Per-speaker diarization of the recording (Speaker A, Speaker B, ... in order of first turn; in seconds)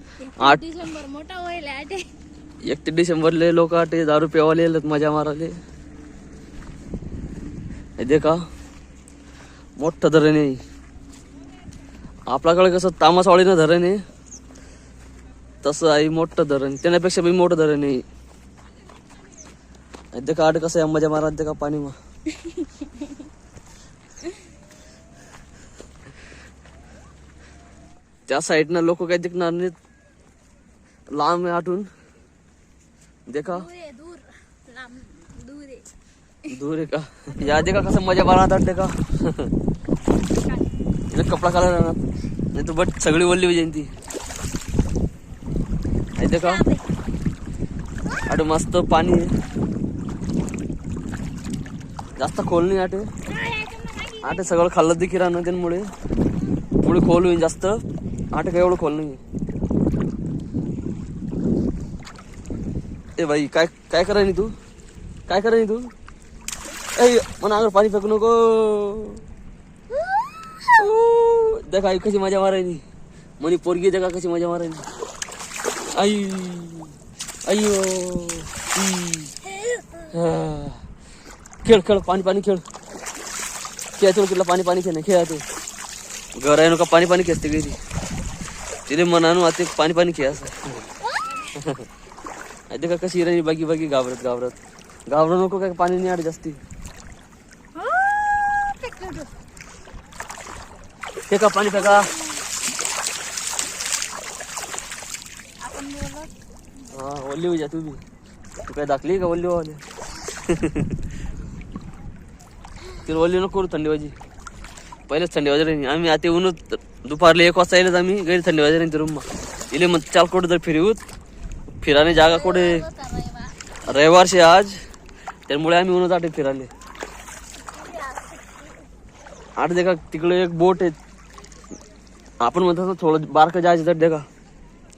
Speaker A: 0.2-2.0, 33.5-35.9, 37.4-37.7, 40.3-40.7, 46.2-46.9, 53.3-54.6, 91.2-91.5, 97.8-99.3, 101.7-102.4, 105.6-106.3, 122.2-123.5, 127.7-128.7
Speaker B: 2.7-5.5, 8.0-8.4, 9.8-10.6, 12.3-14.0, 15.6-18.0, 20.1-22.0, 28.3-29.8, 31.1-31.9, 33.3-33.7, 36.5-39.5, 41.1-42.0, 42.5-43.9, 46.2-46.6, 48.3-49.3, 52.2-53.1, 54.2-55.9, 56.8-57.8, 58.3-59.2, 63.2-64.5, 65.3-65.8, 67.0-69.2, 70.6-72.8, 73.4-74.9, 75.9-76.9, 77.5-79.3, 80.1-80.8, 81.6-82.6, 84.0-85.4, 86.4-87.8, 88.9-90.8, 91.6-91.8, 92.7-94.6, 95.1-96.6, 101.3-102.1, 106.9-108.0, 108.7-109.8, 110.3-110.9, 113.0-114.2, 115.1-121.0, 121.8-122.8, 123.9-124.8, 125.5-126.7, 129.6-131.0, 132.4-134.2